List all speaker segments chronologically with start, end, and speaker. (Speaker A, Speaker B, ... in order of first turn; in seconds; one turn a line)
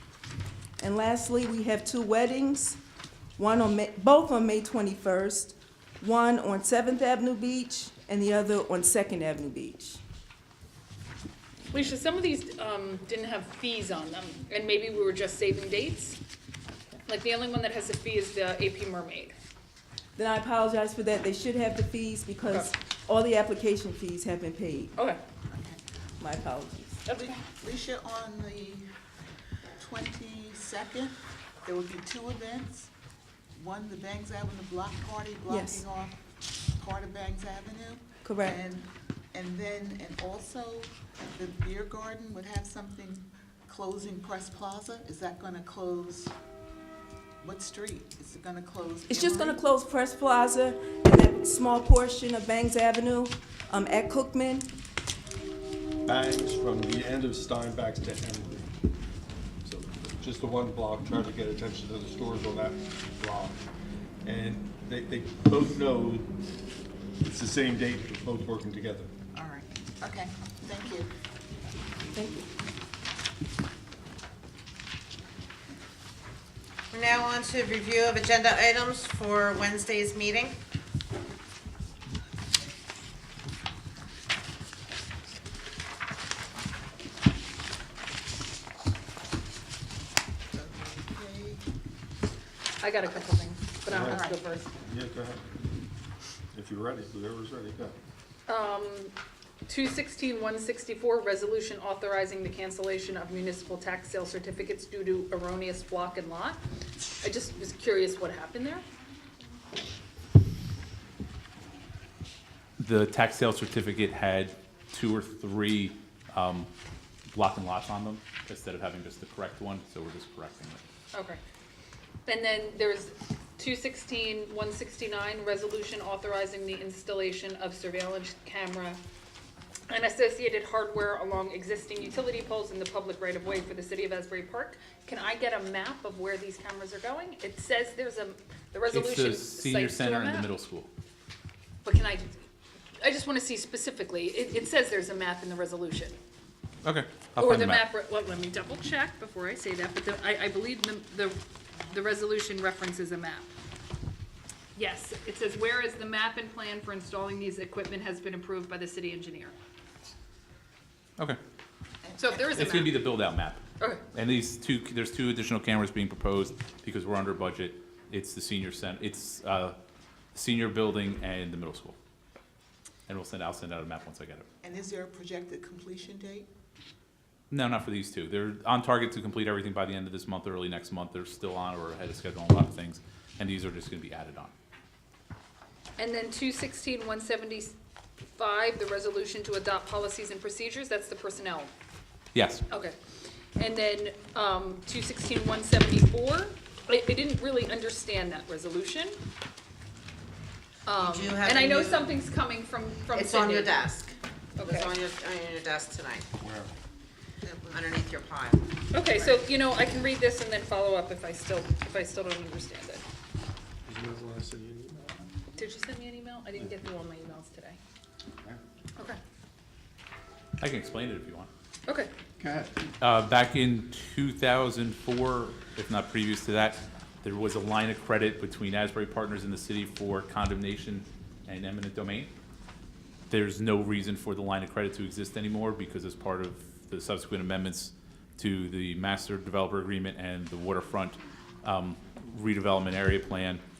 Speaker A: 0.8-2.8
Speaker A: 3.4-10.0
Speaker B: 11.7-16.2
Speaker B: 17.1-19.4
Speaker A: 20.2-24.9
Speaker C: 25.5-25.8
Speaker A: 26.2-27.0
Speaker B: 27.1-27.4
Speaker C: 27.1-28.9
Speaker C: 29.8-32.9
Speaker C: 33.5-36.2
Speaker A: 35.5-35.9
Speaker C: 36.8-46.3
Speaker A: 38.2-38.6
Speaker C: 47.4-49.6
Speaker A: 49.1-54.7
Speaker D: 56.1-58.7
Speaker D: 59.6-63.6
Speaker D: 64.2-66.3
Speaker D: 67.2-69.1
Speaker C: 69.3-71.1
Speaker A: 72.1-72.5
Speaker E: 76.9-80.6
Speaker C: 90.5-91.6
Speaker B: 92.8-94.7
Speaker D: 93.9-94.2
Speaker C: 94.1-94.4
Speaker D: 94.8-95.5
Speaker D: 96.5-98.0
Speaker B: 98.5-99.1
Speaker B: 99.7-106.6
Speaker B: 107.2-108.8
Speaker F: 112.8-116.7
Speaker F: 117.3-120.8
Speaker B: 121.1-121.4
Speaker B: 122.3-129.0
Speaker B: 129.9-140.5
Speaker F: 138.9-140.9
Speaker B: 141.8-142.3
Speaker B: 143.0-146.2
Speaker F: 146.8-147.9
Speaker B: 147.4-153.5
Speaker B: 154.8-159.6
Speaker C: 162.0-163.0
Speaker B: 162.2-163.0
Speaker F: 162.5-169.8
Speaker F: 170.3-172.0
Speaker F: 173.1-174.5
Speaker C: 174.6-176.5
Speaker F: 177.5-184.5
Speaker B: 186.0-191.7
Speaker F: 192.3-192.6
Speaker B: 192.7-193.0
Speaker B: 193.6-199.2
Speaker B: 200.9-203.8
Speaker E: 201.0-202.2
Speaker E: 203.1-206.3
Speaker B: 204.6-204.9
Speaker D: 206.4-206.7
Speaker C: 207.4-207.9
Speaker E: 207.7-208.6
Speaker B: 208.9-213.0
Speaker D: 213.9-215.1
Speaker B: 215.6-217.8
Speaker F: 220.6-221.5
Speaker D: 222.4-222.8
Speaker F: 223.0-232.3
Speaker F: 233.3-243.6